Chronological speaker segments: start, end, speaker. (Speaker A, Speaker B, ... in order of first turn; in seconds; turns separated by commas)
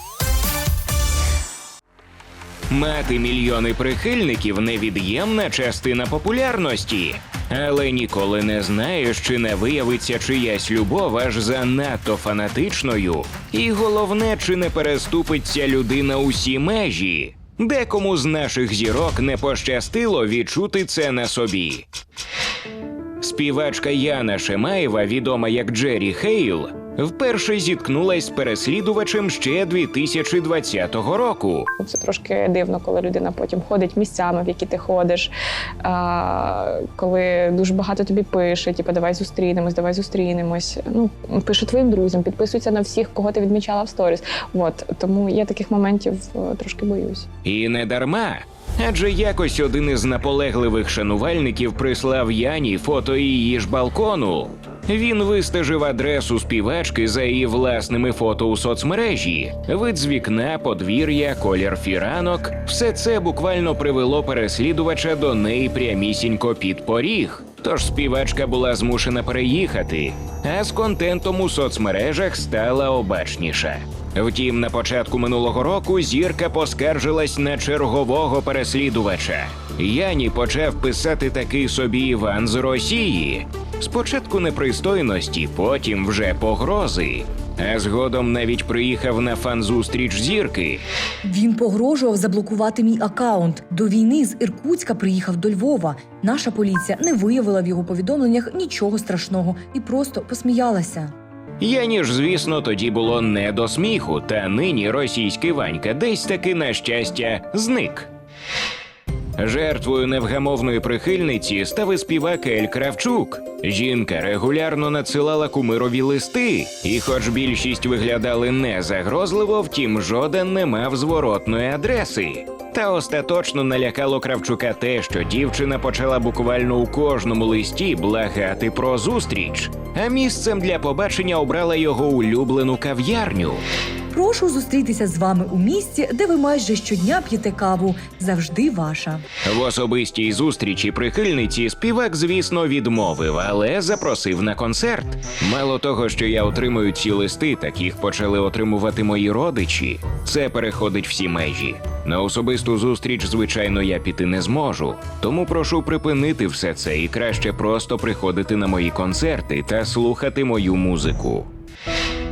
Speaker A: 2.7-21.9, Speaker A: 23.2-31.7, Speaker B: 31.8-35.2, Speaker B: 35.9-47.2, Speaker A: 47.4-90.8, Speaker C: 91.2-101.1, Speaker A: 101.6-108.1, Speaker A: 109.4-133.6, Speaker C: 134.1-139.2, Speaker A: 139.4-161.5